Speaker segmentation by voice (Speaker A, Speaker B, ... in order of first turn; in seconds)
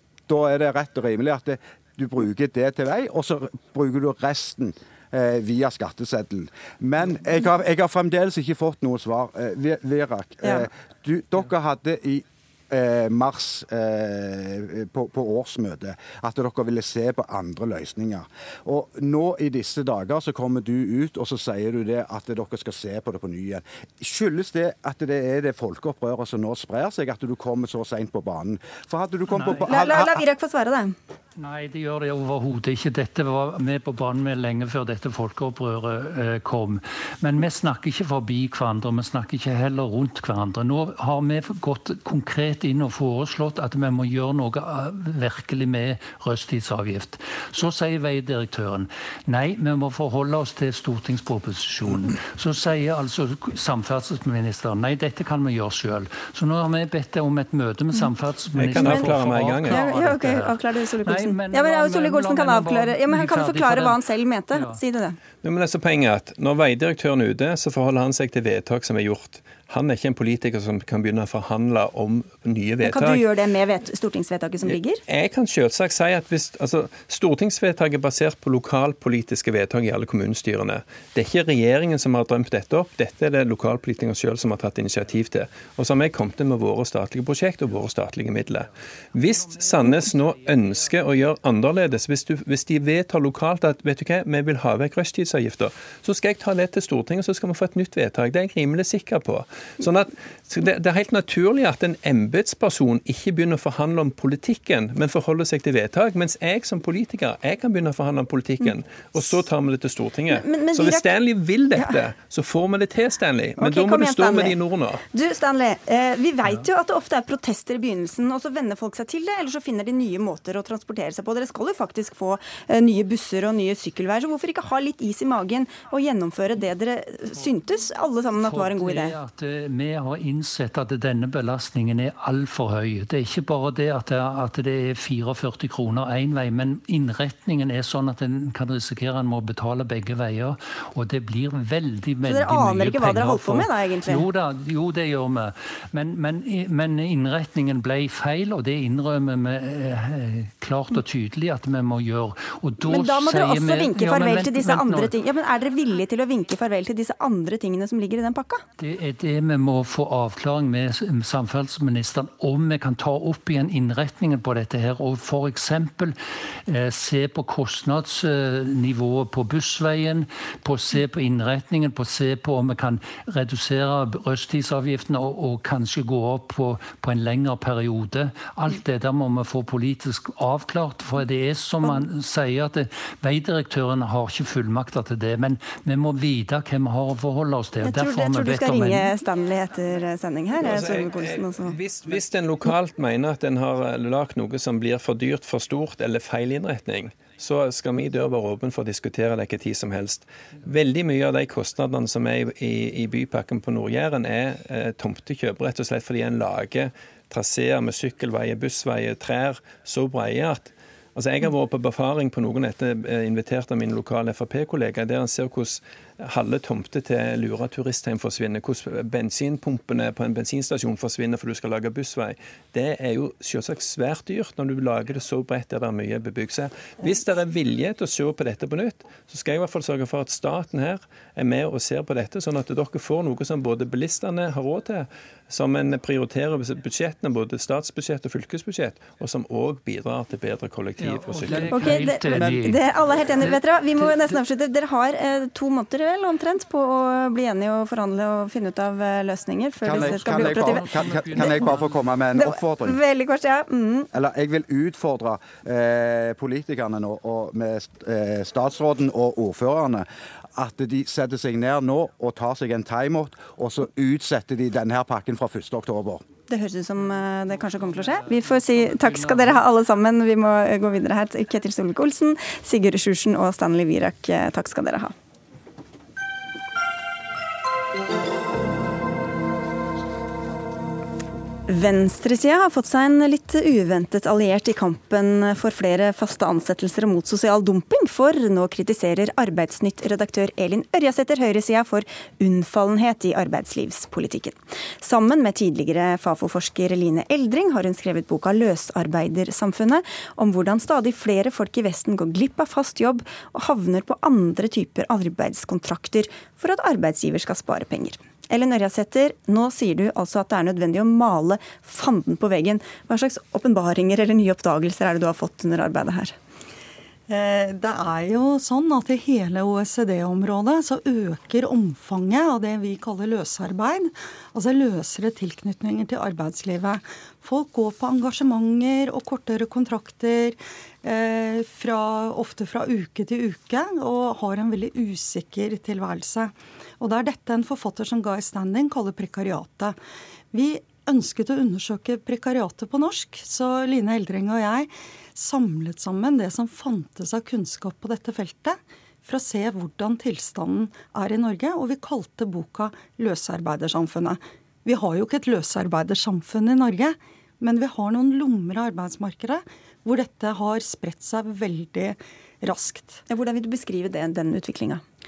Speaker A: 0.3-30.2, 249.8-253.0, 254.1-266.2
Speaker B: 29.3-29.7, 31.4-64.8, 89.2-90.9, 128.3-155.1, 158.8-189.1, 241.0-244.4, 249.8-252.1, 267.8-269.6
Speaker C: 29.7-30.9, 58.7-65.2, 72.8-75.0, 110.3-111.1, 111.8-112.0, 113.6-114.6, 115.1-129.1, 142.2-144.2, 152.8-158.6, 187.8-191.8, 241.7-251.7, 252.3-254.1, 266.5-275.1, 281.7-316.3, 363.3-365.0
Speaker D: 58.5-59.8, 65.4-73.2, 74.6-115.0, 190.6-241.8
Speaker E: 317.3-339.9, 340.5-363.2